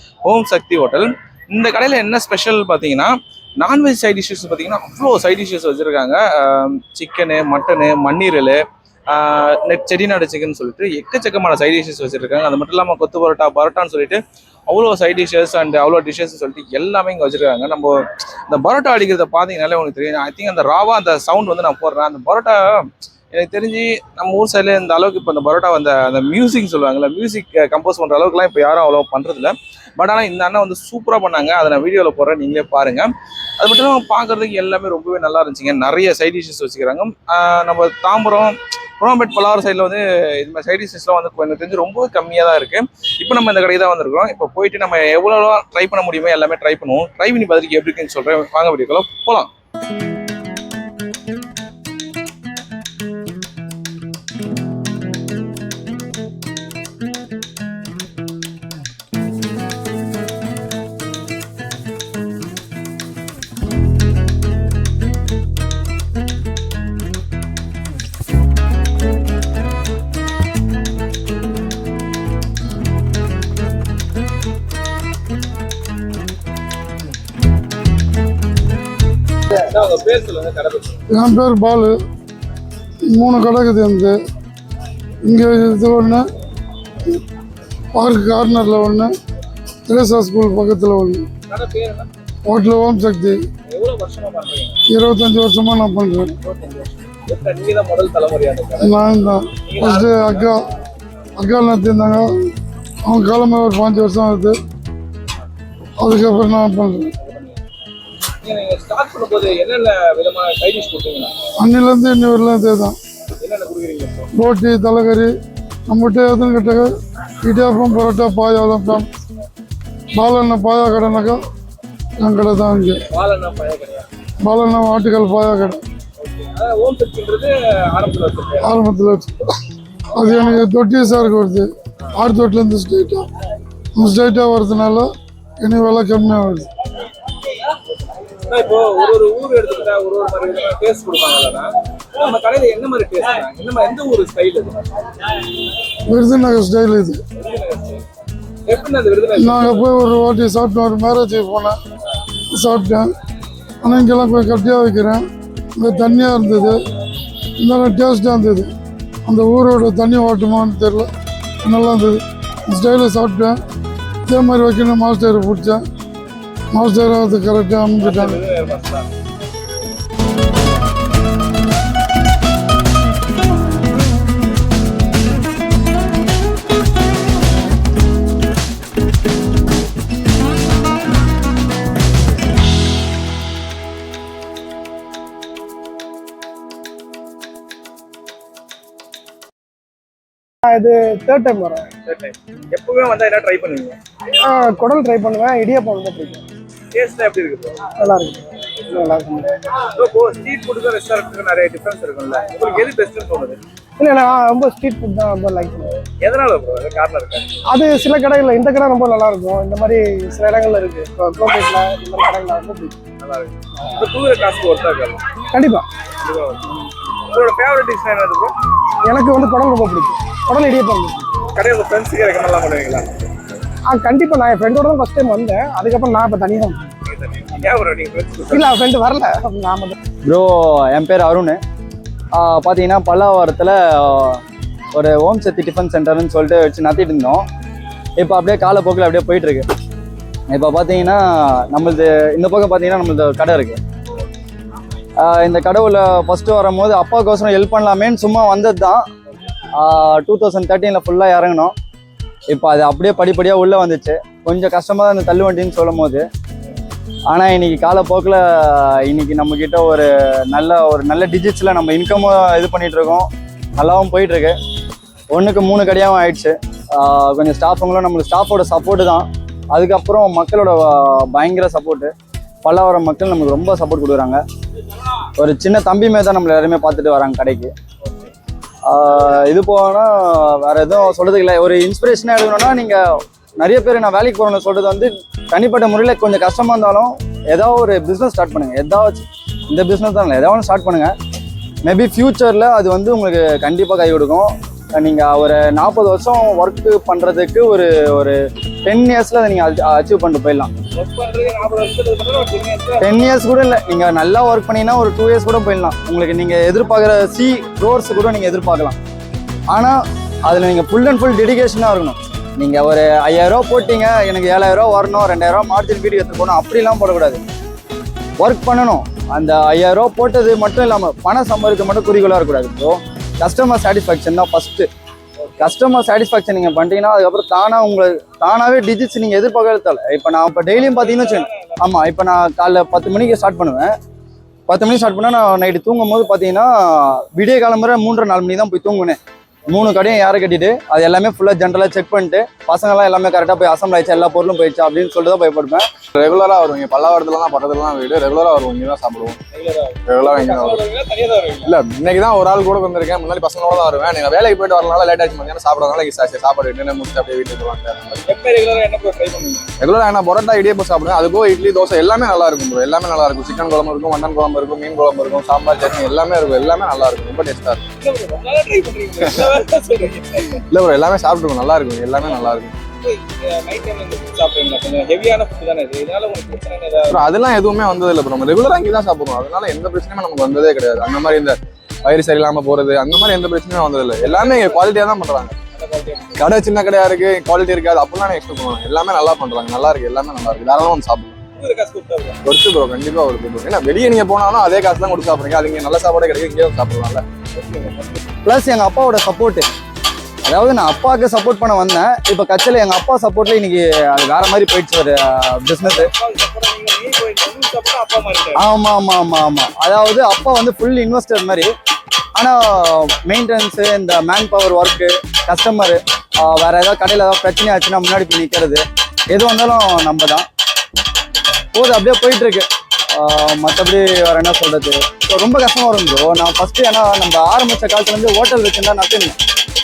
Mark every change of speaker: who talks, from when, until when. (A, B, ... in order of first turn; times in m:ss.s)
0:00.2-0:49.5 A
1:19.6-1:21.0 A
1:21.1-1:22.0 B
1:23.1-1:24.2 B
1:25.2-1:26.3 B
1:27.9-1:29.1 B
1:29.9-1:31.3 B
1:31.5-1:32.1 A
1:32.5-1:33.4 B
1:33.7-1:34.8 A
1:34.9-1:36.3 B
1:36.4-1:39.0 A
1:38.8-1:40.6 B
1:39.7-1:40.5 A
1:41.4-1:42.5 B
1:43.0-1:44.6 B
1:46.0-1:47.1 B
1:47.2-1:47.6 A
1:48.4-1:51.3 A
1:51.6-1:53.0 B
1:53.4-1:54.3 A
1:54.4-1:55.3 B
1:55.9-1:56.9 B
1:57.4-1:59.1 B
2:00.2-2:01.4 B
2:02.2-2:03.0 B
2:03.1-2:04.1 A
2:04.4-2:05.8 B
2:06.2-2:08.8 A
2:08.6-2:09.6 B
2:10.2-2:13.3 B
2:14.0-2:15.1 B
2:15.6-2:16.7 B
2:18.4-2:24.9 A
2:26.1-2:27.2 B
2:27.4-2:28.0 A
2:28.7-2:29.8 A
2:29.4-2:31.8 B
2:32.5-2:33.1 B
2:33.8-2:35.2 B
2:35.8-2:36.8 B
2:37.6-2:38.7 B
2:39.3-2:41.1 B
2:41.6-2:43.6 B
2:44.3-2:45.8 B
2:46.7-2:48.4 B
2:48.0-2:49.1 A
3:10.6-3:11.9 C
3:12.0-3:14.0 A
3:14.4-3:16.4 C
3:17.0-3:17.9 A
3:18.0-3:19.5 C
3:19.8-3:23.6 A
3:24.0-3:26.0 C
3:26.2-3:27.5 A
3:27.7-3:33.0 C
3:33.2-3:35.2 A
3:35.5-3:35.9 C
3:36.2-3:36.8 A
3:37.3-3:38.5 A
3:39.0-3:41.4 C
3:41.4-3:43.3 A
3:43.9-3:46.9 C
3:47.1-3:48.7 A
3:48.5-3:50.0 C
3:50.3-3:51.6 D
3:52.3-3:54.4 D
3:54.9-3:57.4 D
3:58.2-3:59.7 D
4:00.5-4:03.8 D
4:05.2-4:09.0 D
4:09.8-4:11.7 D
4:12.5-4:16.2 D
4:17.3-4:24.6 D
4:25.3-4:32.1 D
4:32.6-4:34.4 D
4:35.4-4:37.7 D
4:38.9-4:43.0 D
4:43.6-4:51.1 D
4:51.9-5:00.7 D
5:01.0-5:03.1 A
5:03.0-5:09.0 D
5:09.7-5:10.0 D
5:10.5-5:17.4 D
5:18.4-5:24.9 D
5:25.6-5:33.9 D
5:31.0-5:31.8 A
5:34.7-5:45.9 D
5:46.2-5:49.4 E
5:49.5-5:51.7 A
5:50.1-5:50.8 E
5:51.6-5:58.2 E
5:58.2-5:59.7 A
5:59.8-6:07.8 E
6:08.0-6:10.6 A
6:10.7-6:12.8 E
6:13.0-6:17.2 A
6:17.1-6:25.6 E
6:24.2-6:24.9 A
6:25.8-6:26.3 A
6:26.4-6:31.4 E
6:31.6-6:32.4 A
6:32.4-6:37.2 E
6:37.6-6:38.2 A
6:38.4-6:39.7 D
6:40.5-6:46.1 D
6:45.8-6:48.6 A
6:48.6-6:51.7 D
6:52.4-7:00.5 D
7:01.7-7:09.4 D